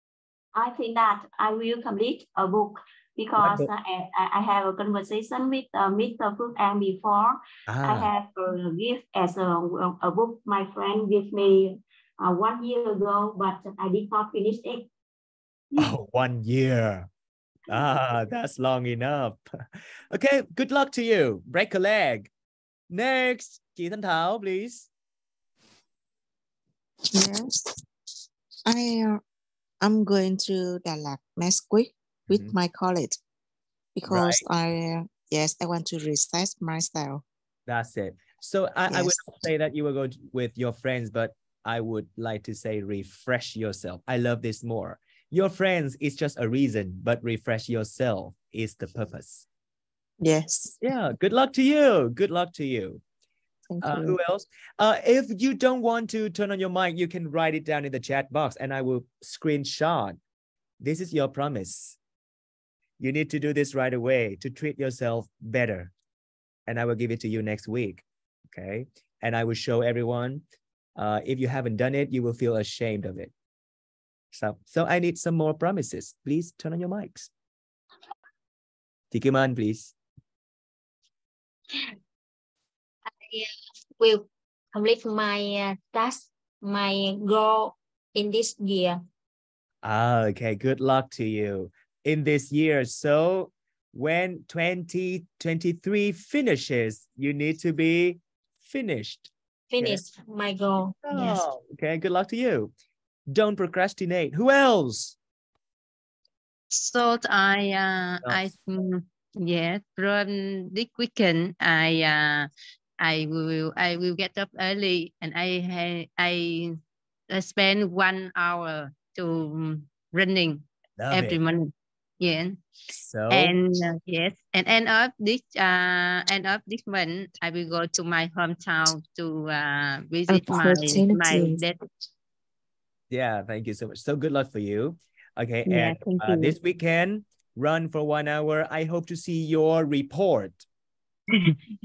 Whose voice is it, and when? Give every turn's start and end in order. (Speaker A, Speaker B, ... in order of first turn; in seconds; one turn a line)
Speaker A: 0.5-14.9
Speaker B: 3.4-3.7
Speaker B: 7.7-8.1
Speaker B: 15.8-17.1
Speaker B: 17.7-22.3
Speaker B: 22.9-24.9
Speaker C: 27.1-27.8
Speaker C: 28.6-29.2
Speaker C: 29.8-33.2
Speaker B: 32.3-32.5
Speaker C: 34.0-37.2
Speaker B: 34.1-34.4
Speaker B: 37.7-49.5
Speaker C: 38.9-39.4
Speaker C: 50.2-50.8
Speaker B: 50.8-53.0
Speaker C: 53.7-54.2
Speaker B: 53.8-60.2
Speaker B: 60.8-62.0
Speaker B: 63.0-65.9
Speaker B: 66.7-70.4
Speaker B: 71.0-73.3
Speaker B: 74.3-77.3
Speaker B: 79.1-79.9
Speaker D: 83.1-89.0
Speaker B: 89.8-100.0
Speaker D: 99.7-101.5
Speaker B: 101.0-102.7
Speaker B: 103.3-105.2
Speaker E: 106.7-116.8
Speaker B: 108.2-108.5
Speaker E: 117.3-122.6
Speaker B: 121.0-121.4
Speaker B: 122.9-123.6
Speaker E: 123.3-131.8
Speaker C: 130.3-131.6
Speaker B: 133.1-140.6
Speaker E: 135.7-136.6